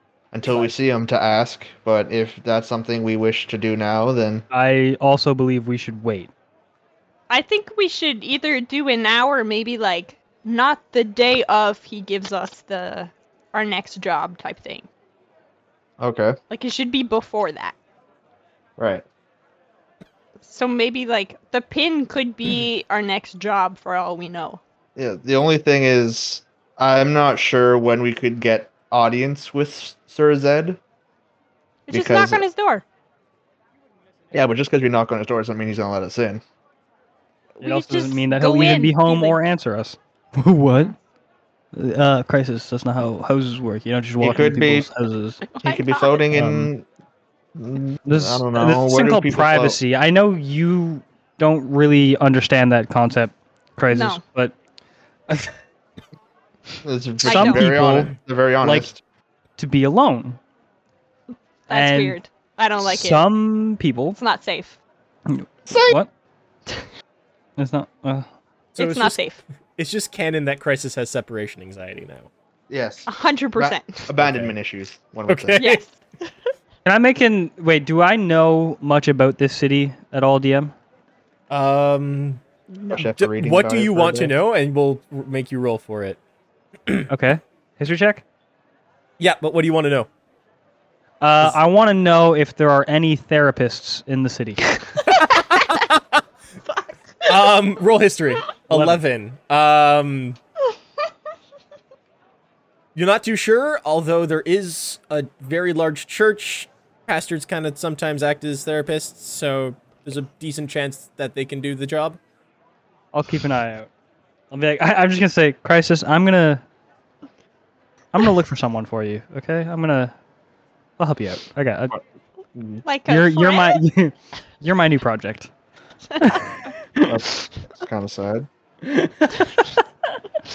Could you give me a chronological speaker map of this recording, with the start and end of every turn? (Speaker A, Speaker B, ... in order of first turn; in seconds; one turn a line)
Speaker A: 0.3-4.4
Speaker B: 4.5-6.3
Speaker C: 7.3-14.9
Speaker A: 16.0-16.3
Speaker C: 16.5-17.8
Speaker A: 18.8-19.0
Speaker C: 20.4-24.6
Speaker A: 24.9-30.8
Speaker C: 31.9-32.8
Speaker A: 31.9-32.4
Speaker A: 34.3-36.4
Speaker C: 37.5-39.4
Speaker B: 37.6-40.9
Speaker B: 41.7-45.4
Speaker A: 44.2-44.9
Speaker C: 45.6-46.2
Speaker A: 45.6-46.9
Speaker B: 46.3-46.7
Speaker A: 47.5-49.8
Speaker B: 48.0-54.5
Speaker C: 53.9-54.2
Speaker A: 56.8-59.0
Speaker C: 57.2-57.8
Speaker B: 57.2-58.9
Speaker B: 59.6-60.4
Speaker C: 61.7-63.2
Speaker B: 61.7-62.2
Speaker B: 62.8-64.2
Speaker C: 64.2-64.8
Speaker B: 65.3-66.1
Speaker A: 65.7-66.0
Speaker B: 67.6-68.3
Speaker D: 68.7-72.3
Speaker C: 68.8-69.4
Speaker A: 72.7-75.6
Speaker C: 73.1-74.1
Speaker D: 74.2-74.5
Speaker D: 75.3-75.8
Speaker C: 75.5-75.9
Speaker B: 76.8-80.7
Speaker D: 81.5-82.4
Speaker C: 82.7-83.1
Speaker A: 82.9-84.3
Speaker D: 83.2-86.2
Speaker B: 87.1-88.2
Speaker D: 89.2-90.1
Speaker B: 91.2-94.6
Speaker C: 95.1-95.8
Speaker D: 95.2-96.0
Speaker C: 96.7-97.5
Speaker D: 97.3-100.4
Speaker B: 98.7-99.0
Speaker D: 102.9-112.2
Speaker B: 113.1-113.9
Speaker B: 114.5-116.6
Speaker B: 118.1-120.1
Speaker B: 121.0-122.0
Speaker B: 122.6-125.5
Speaker C: 122.8-123.8
Speaker C: 126.1-126.6
Speaker B: 126.2-127.2
Speaker A: 127.0-128.5
Speaker B: 128.8-129.6